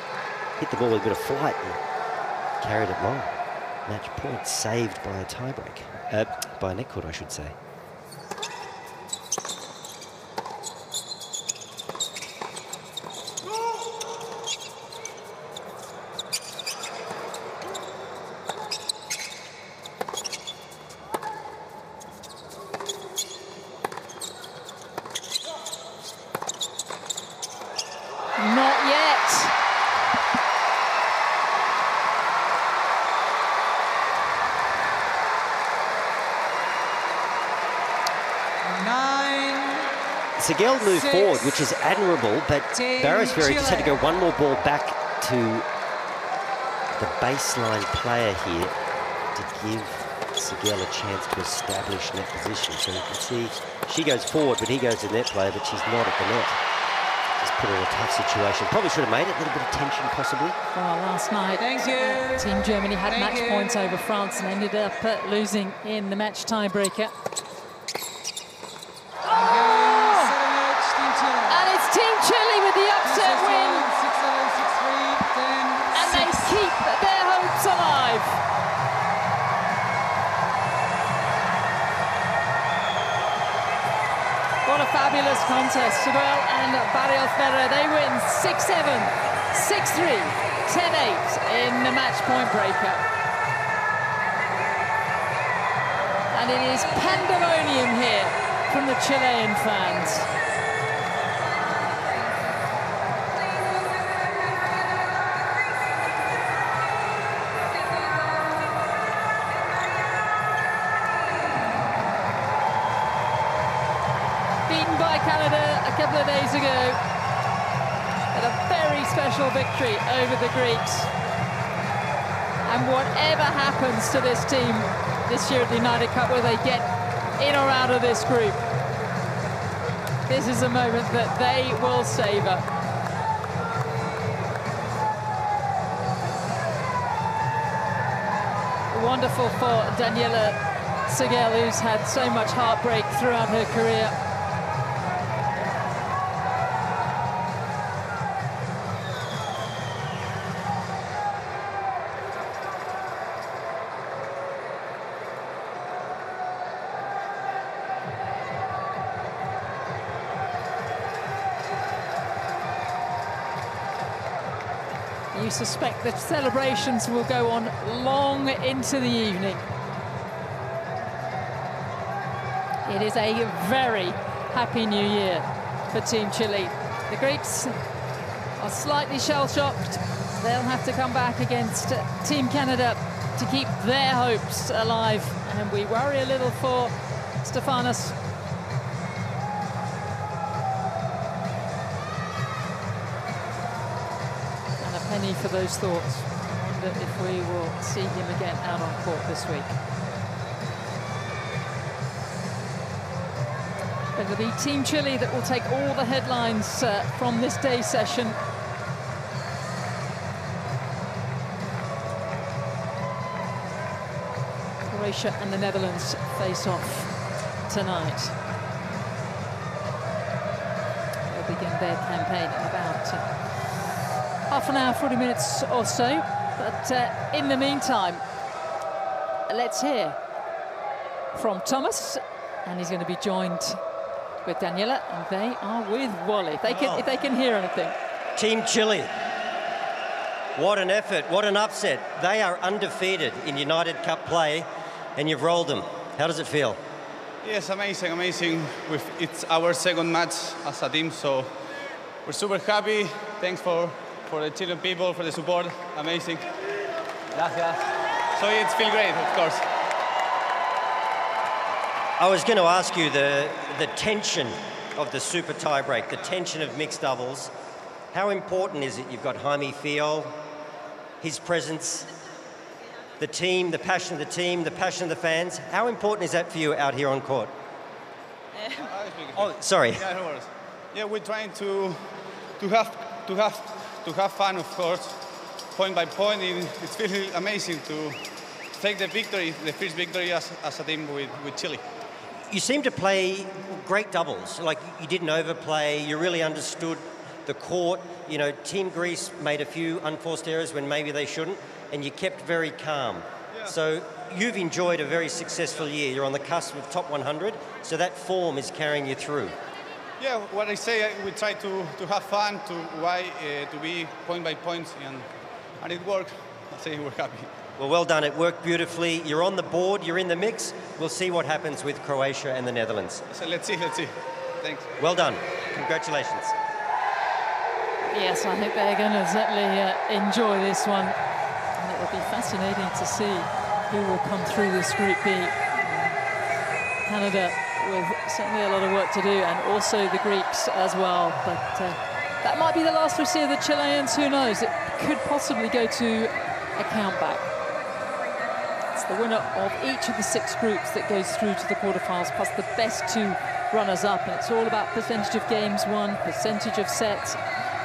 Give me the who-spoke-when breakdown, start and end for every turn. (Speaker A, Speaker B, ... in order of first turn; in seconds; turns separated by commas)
Speaker A: 0.6-1.8, Speaker A: 2.6-7.5, Speaker B: 28.4-29.6, Speaker C: 38.6-39.9, Speaker A: 40.4-45.7, Speaker C: 40.9-41.5, Speaker C: 42.7-44.0, Speaker A: 46.9-48.8, Speaker A: 49.3-56.6, Speaker A: 57.4-60.6, Speaker B: 60.7-67.1, Speaker C: 61.6-62.5, Speaker C: 63.1-63.8, Speaker C: 69.3-71.7, Speaker B: 69.6-70.3, Speaker B: 71.5-73.8, Speaker C: 73.0-76.6, Speaker B: 75.9-78.4, Speaker B: 84.6-93.0, Speaker B: 96.3-100.3, Speaker B: 114.7-117.0, Speaker B: 118.3-121.1, Speaker B: 122.6-128.6, Speaker B: 130.3-132.6, Speaker B: 138.9-144.2, Speaker B: 165.3-169.7, Speaker B: 172.8-177.8, Speaker B: 178.6-188.2, Speaker B: 194.8-199.8, Speaker B: 204.1-208.4, Speaker B: 214.8-218.4, Speaker B: 221.3-223.3, Speaker B: 224.5-228.2, Speaker B: 229.5-230.2, Speaker B: 231.3-233.8, Speaker B: 234.4-237.9, Speaker A: 238.3-239.1, Speaker A: 240.5-246.8, Speaker D: 247.4-251.6, Speaker D: 252.2-256.5, Speaker D: 257.3-257.8, Speaker D: 258.3-259.6, Speaker A: 262.2-267.5, Speaker A: 268.1-270.4, Speaker A: 271.2-272.1, Speaker A: 273.2-277.5, Speaker D: 278.7-288.2, Speaker A: 279.3-280.1, Speaker D: 288.7-291.8, Speaker A: 292.5-309.6, Speaker D: 310.2-315.3, Speaker D: 315.8-317.5, Speaker A: 317.8-323.2, Speaker D: 323.3-324.9, Speaker A: 325.0-326.5, Speaker B: 328.1-331.2, Speaker B: 331.7-336.2, Speaker B: 337.0-347.5, Speaker B: 348.9-357.4